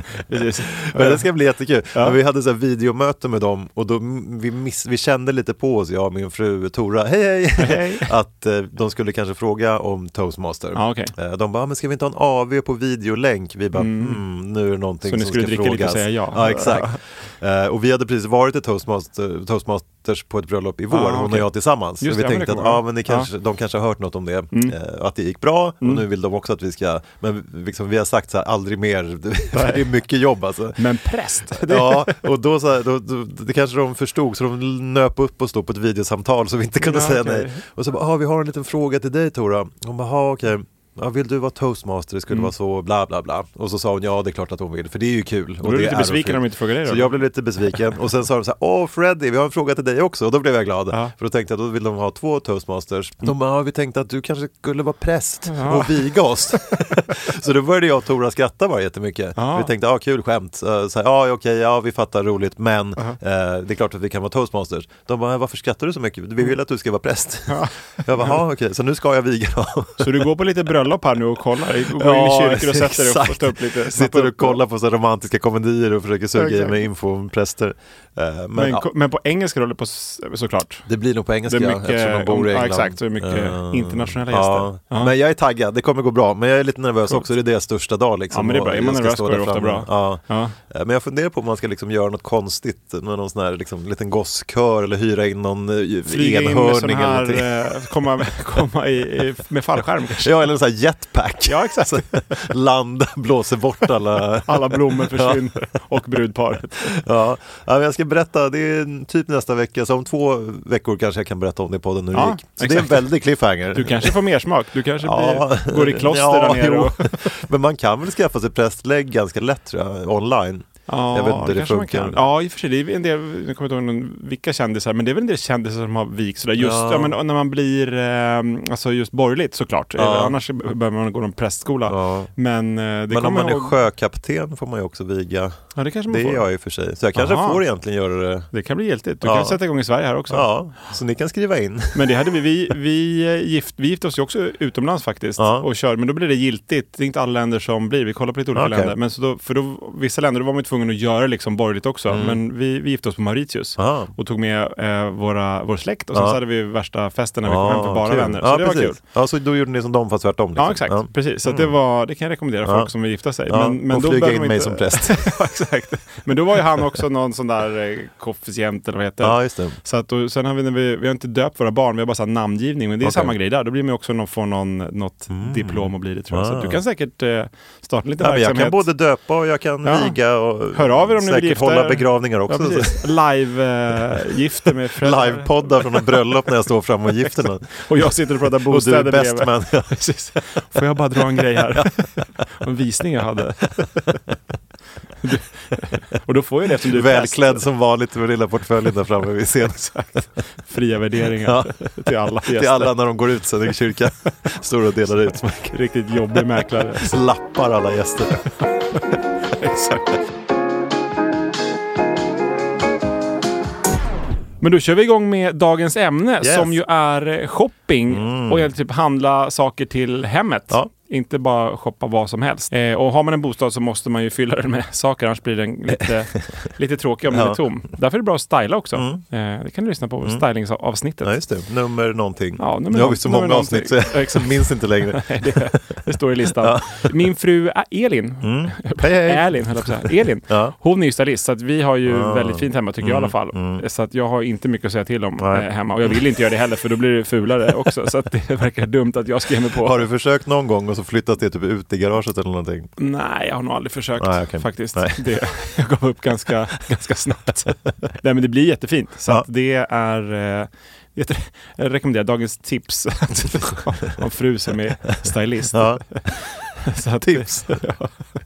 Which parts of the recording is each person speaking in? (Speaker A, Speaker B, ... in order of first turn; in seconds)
Speaker A: 0.3-1.3, 7.6-8.1, 10.7-11.1, 13.7-14.2, 15.0-16.9, 20.9-23.3, 29.5-29.9, 30.8-32.3, 36.8-37.6, 45.6-47.2, 55.5-56.0, 59.4-59.7, 67.5-68.4, 70.0-74.6, 76.3-76.8, 78.5-80.9, 81.5-85.1, 88.3-90.5, 96.1-100.3, 101.5-102.3, 104.4-106.9, 112.1-113.0, 113.7-117.3, 120.9-133.8, 135.8-136.5, 137.1-137.6, 138.5-140.5, 141.9-159.0, 160.6-178.9, 179.8-186.2, 187.8-194.2, 195.2-197.6, 199.8-202.9, 205.7-207.2, 209.5-210.1, 214.6-231.3, 232.6-250.1, 253.0-268.1
Speaker B: 0.8-30.8, 31.5-70.2, 71.9-78.8, 80.9-97.5, 100.2-105.5, 106.9-114.2, 115.0-122.2, 126.6-127.2, 130.0-130.3, 131.9-132.3, 133.1-138.5, 139.2-139.6, 140.3-142.1, 145.4-145.7, 148.5-148.9, 152.1-152.4, 153.8-154.1, 156.1-156.4, 157.4-161.7, 162.6-162.9, 163.4-165.2, 169.2-169.8, 173.0-173.3, 175.3-176.8, 178.2-183.1, 185.0-187.8, 188.7-189.9, 191.4-192.0, 196.8-200.0, 201.4-205.8, 207.0-208.5, 216.4-216.8, 218.1-218.7, 227.3-227.6, 228.9-229.2, 231.2-237.1, 238.4-240.7, 242.1-243.8, 245.4-246.2, 249.8-252.9, 254.2-255.3, 265.7-266.2, 267.2-267.8